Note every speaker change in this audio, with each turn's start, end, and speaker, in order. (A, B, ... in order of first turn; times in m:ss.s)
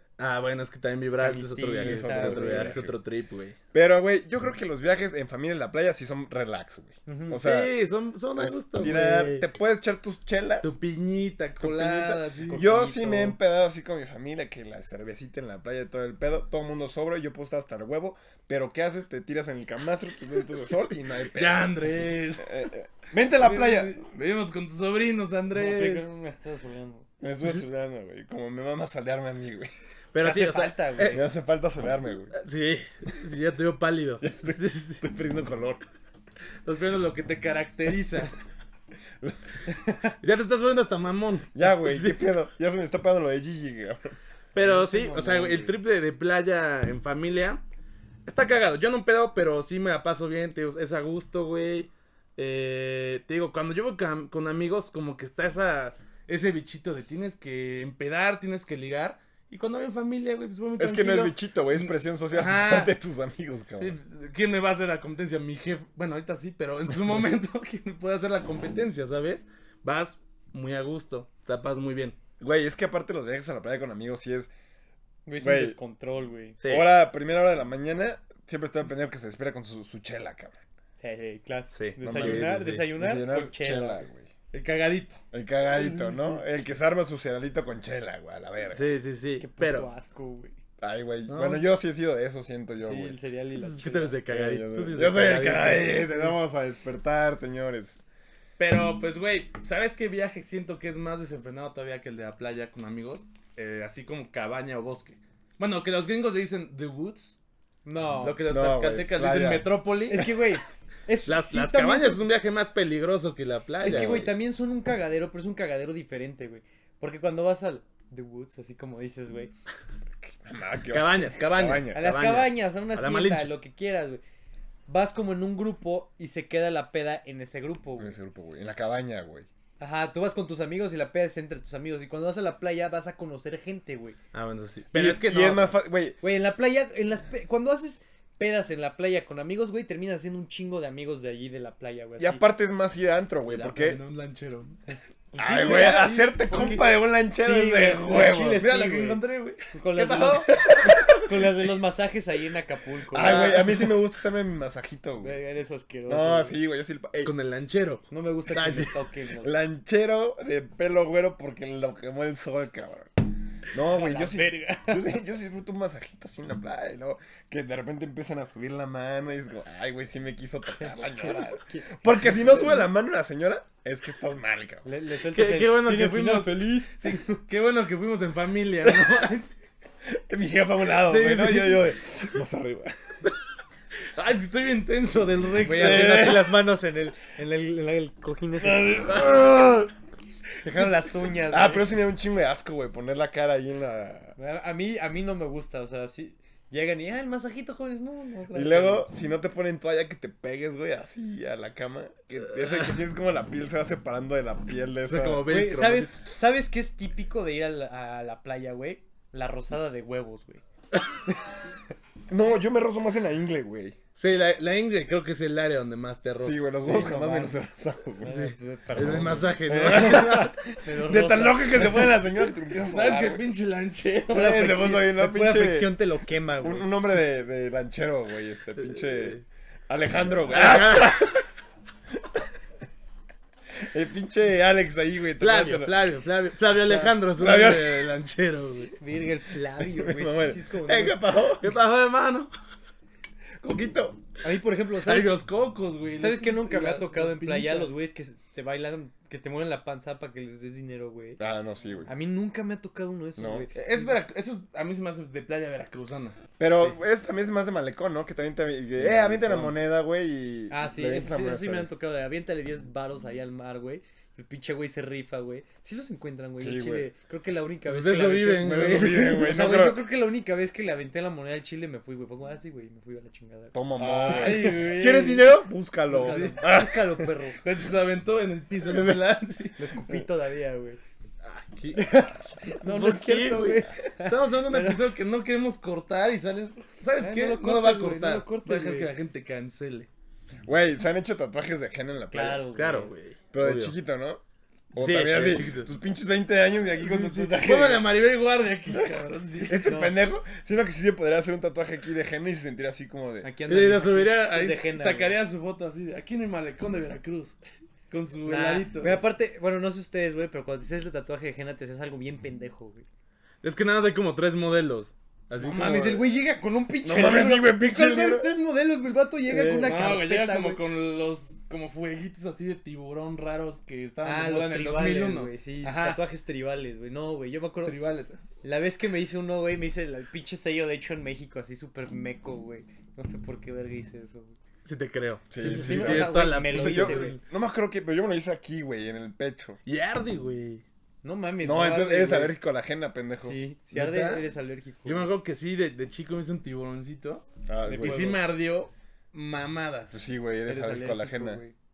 0:00.2-0:03.6 A
0:01.2-0:02.8 B
0:01.7-0:03.0 C
0:03.7-0:07.7 C
0:07.1-0:07.4 B
0:07.4-0:09.5 A
0:08.4-0:10.7 C
0:10.6-0:12.7 A
0:11.6-0:21.7 C
0:12.5-0:13.4 B
0:21.3-0:22.6 A
0:22.4-0:24.0 C
0:23.3-0:26.0 A
0:25.6-0:27.1 B
0:27.2-0:29.7 C
0:30.1-0:31.3 A
0:30.2-0:31.2 B
0:31.1-0:32.3 C
0:32.3-0:35.1 A
0:34.2-0:35.8 C
0:36.6-0:38.3 A
0:39.2-0:40.1 C
0:40.2-0:42.2 A
0:41.5-0:44.2 C
0:44.5-0:47.6 A
0:44.6-0:45.7 B
0:48.3-1:02.9 A
1:00.8-1:04.0 C
1:03.8-1:12.2 A
1:12.4-1:14.5 C
1:15.3-1:16.6 B
1:15.4-1:15.8 C
1:16.6-1:16.9 A
1:16.7-1:20.6 C
1:21.0-1:24.1 B
1:21.7-1:22.9 A
1:22.0-1:24.3 C
1:24.5-1:25.2 A
1:25.3-1:28.9 C
1:25.7-1:26.4 B
1:28.7-1:29.9 A
1:29.4-1:30.6 B
1:30.8-1:33.2 C
1:31.3-1:31.7 A
1:32.8-1:34.2 B
1:33.6-1:36.3 A
1:34.3-1:38.0 C
1:38.6-1:47.4 A
1:47.8-1:48.4 B
1:48.2-1:50.6 A
1:48.4-1:49.7 C
1:50.1-1:52.2 B
1:51.3-1:54.3 A
1:53.8-1:59.5 B
1:53.8-1:54.3 C
2:00.4-2:02.1 C
2:00.9-2:03.5 A
2:01.9-2:04.2 B
2:04.9-2:08.2 B
2:08.0-2:09.5 C
2:09.8-2:14.2 B
2:14.3-2:15.8 A
2:14.9-2:16.2 C
2:16.2-2:22.4 B
2:22.2-2:24.0 C
2:23.5-2:24.8 A
2:25.3-2:29.2 B
2:25.4-2:28.7 C
2:28.4-2:31.0 A
2:29.7-2:33.7 B
2:30.8-2:31.3 C
2:33.1-2:35.4 C
2:33.2-2:33.9 A
2:35.2-2:36.6 B
2:36.1-2:37.3 C
2:37.2-2:38.9 A
2:38.1-2:39.6 B
2:39.4-2:54.9 C
2:43.8-2:45.1 B
2:51.2-2:52.8 B
2:54.8-2:57.2 B
2:55.3-2:59.6 A
2:58.8-2:59.2 C
3:00.1-3:02.9 C
3:01.1-3:01.9 A
3:04.0-3:06.6 A
3:05.6-3:09.2 B
3:05.8-3:06.4 C
3:08.6-3:09.9 C
3:10.6-3:11.9 B
3:11.5-3:14.4 C
3:14.4-3:19.1 B
3:18.5-3:25.5 C
3:25.1-3:26.2 A
3:25.5-3:30.6 B
3:32.3-3:34.0 C
3:34.2-3:37.5 A
3:36.4-3:38.3 C
3:36.9-3:37.4 B
3:38.2-3:42.2 B
3:38.2-3:40.6 A
3:39.8-3:43.5 C
3:42.8-3:44.9 A
3:44.3-3:46.9 B
3:44.3-3:45.9 C
3:46.6-3:51.4 C
3:48.9-3:49.4 A
3:50.5-3:51.4 A
3:53.8-3:56.0 C
3:55.4-3:59.0 A
3:56.9-3:58.1 C
3:59.0-4:01.2 B
3:59.8-4:01.8 C
4:01.5-4:02.5 A
4:03.6-4:04.2 C
4:04.4-4:05.4 B
4:05.0-4:07.9 A
4:06.1-4:11.4 B
4:11.4-4:12.1 C
4:12.1-4:14.1 B
4:13.4-4:13.7 C
4:13.8-4:17.0 A
4:16.6-4:21.9 C
4:19.1-4:19.7 B
4:19.3-4:19.7 A
4:20.7-4:34.7 B
4:26.6-4:27.1 C
4:27.9-4:29.4 A
4:28.6-4:30.1 C
4:33.7-4:37.3 C
4:34.0-4:35.5 A
4:36.1-4:37.6 B
4:36.1-4:36.6 A
4:37.6-4:39.8 A
4:38.8-4:39.2 C
4:39.8-4:41.0 B
4:41.4-4:50.1 A
4:41.9-4:45.0 B
4:47.2-4:49.1 B
4:50.7-4:52.7 C
4:52.3-4:53.1 B
4:52.8-4:54.0 A
4:53.5-4:54.4 C
4:54.9-4:58.1 C
4:55.0-4:55.9 A
4:57.0-4:59.8 A
4:58.9-5:03.5 C
4:59.8-5:00.2 B
5:03.4-5:05.4 B
5:03.7-5:07.6 A
5:08.1-5:09.2 A
5:08.4-5:13.1 B
5:13.6-5:16.3 A
5:15.6-5:20.8 B
5:17.0-5:18.5 C
5:19.5-5:26.2 A
5:24.2-5:28.0 B
5:27.8-5:28.4 A
5:28.6-5:34.6 B
5:34.8-5:37.4 A
5:35.5-5:39.8 C
5:35.6-5:37.4 B
5:39.9-5:40.8 A
5:41.2-5:42.5 B
5:41.6-5:43.6 C
5:43.4-5:45.3 B
5:43.9-5:44.5 A
5:45.0-5:47.4 A
5:47.7-5:48.4 C
5:47.8-5:48.4 B
5:48.0-5:50.2 A
5:50.1-5:51.6 C
5:50.7-5:51.8 B